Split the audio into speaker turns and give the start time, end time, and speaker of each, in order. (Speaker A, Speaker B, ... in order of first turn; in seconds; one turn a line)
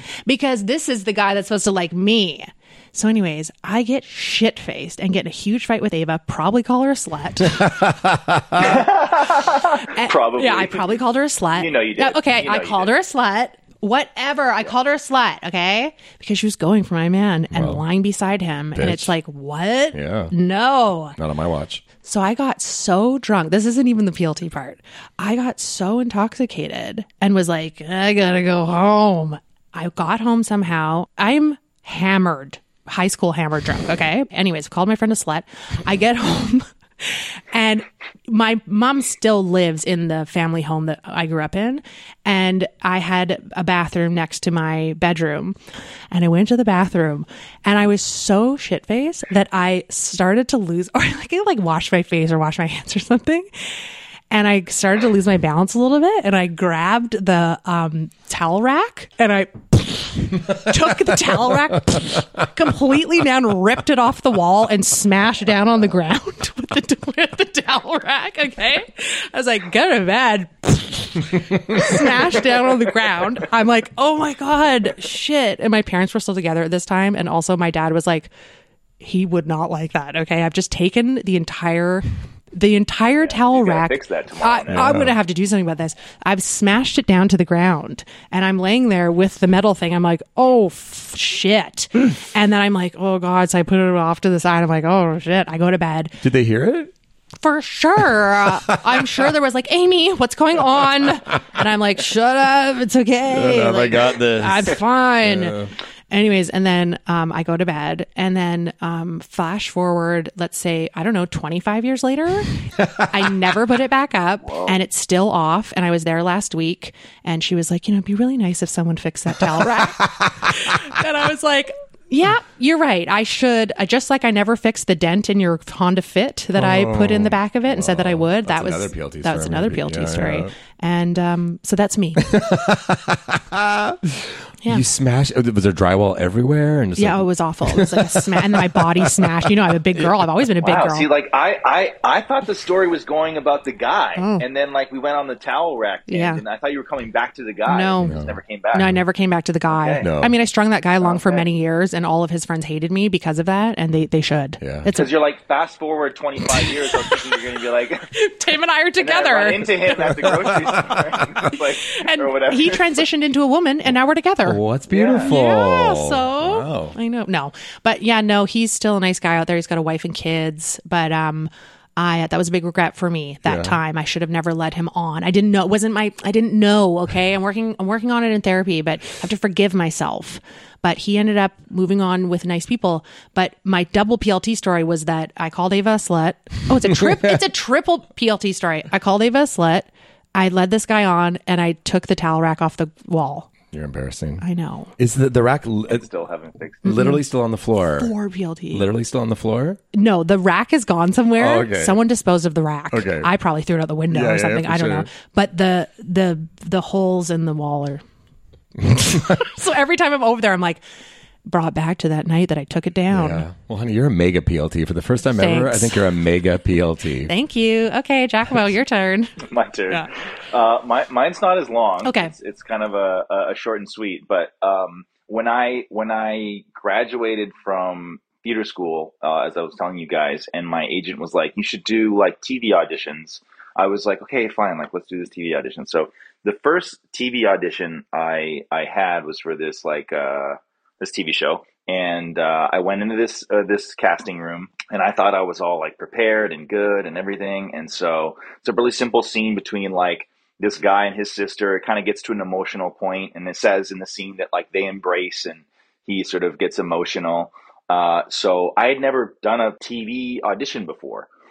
Speaker A: 0.3-7.7
Speaker B: 7.6-8.7
Speaker C: 8.6-11.0
Speaker A: 9.8-21.2
Speaker C: 11.5-12.9
Speaker B: 17.5-17.8
Speaker B: 18.7-19.1
Speaker B: 19.9-20.3
Speaker B: 21.2-21.8
Speaker A: 22.0-45.5
Speaker A: 46.1-53.5
Speaker A: 54.3-78.3
Speaker B: 71.7-72.0
Speaker A: 79.0-96.2
Speaker C: 83.2-85.0
Speaker B: 84.7-85.1
Speaker B: 96.2-96.9
Speaker A: 97.4-105.6
Speaker B: 98.6-99.3
Speaker B: 103.3-105.7
Speaker A: 106.1-112.5
Speaker B: 112.8-113.3
Speaker A: 113.1-132.3
Speaker C: 114.4-114.8
Speaker B: 119.6-120.7
Speaker B: 126.5-130.5
Speaker B: 132.2-140.1
Speaker A: 137.0-141.1
Speaker C: 140.6-148.8
Speaker A: 144.2-144.4
Speaker A: 146.1-146.4
Speaker A: 147.6-148.2
Speaker B: 148.0-148.4
Speaker A: 148.7-155.2
Speaker C: 149.7-150.1
Speaker B: 150.0-150.3
Speaker C: 151.0-151.5
Speaker B: 154.6-154.9
Speaker C: 154.9-158.1
Speaker A: 156.5-157.4
Speaker A: 158.1-160.7
Speaker C: 159.0-163.0
Speaker B: 160.2-160.9
Speaker A: 161.5-164.6
Speaker B: 164.4-166.9
Speaker C: 164.9-165.3
Speaker A: 165.2-193.5
Speaker B: 173.4-173.8
Speaker B: 193.7-194.4
Speaker A: 194.4-194.9
Speaker B: 195.0-196.1
Speaker C: 195.9-196.8
Speaker A: 196.8-197.2
Speaker B: 196.8-198.1
Speaker A: 198.0-198.9
Speaker B: 198.7-199.8
Speaker A: 199.9-208.0
Speaker B: 201.4-202.0
Speaker B: 202.9-203.3
Speaker B: 204.1-205.1
Speaker B: 208.9-209.4
Speaker A: 208.9-210.8
Speaker A: 211.5-213.4
Speaker B: 213.1-217.3
Speaker A: 215.3-216.0
Speaker A: 217.3-219.4
Speaker C: 219.4-261.3
Speaker A: 222.0-222.3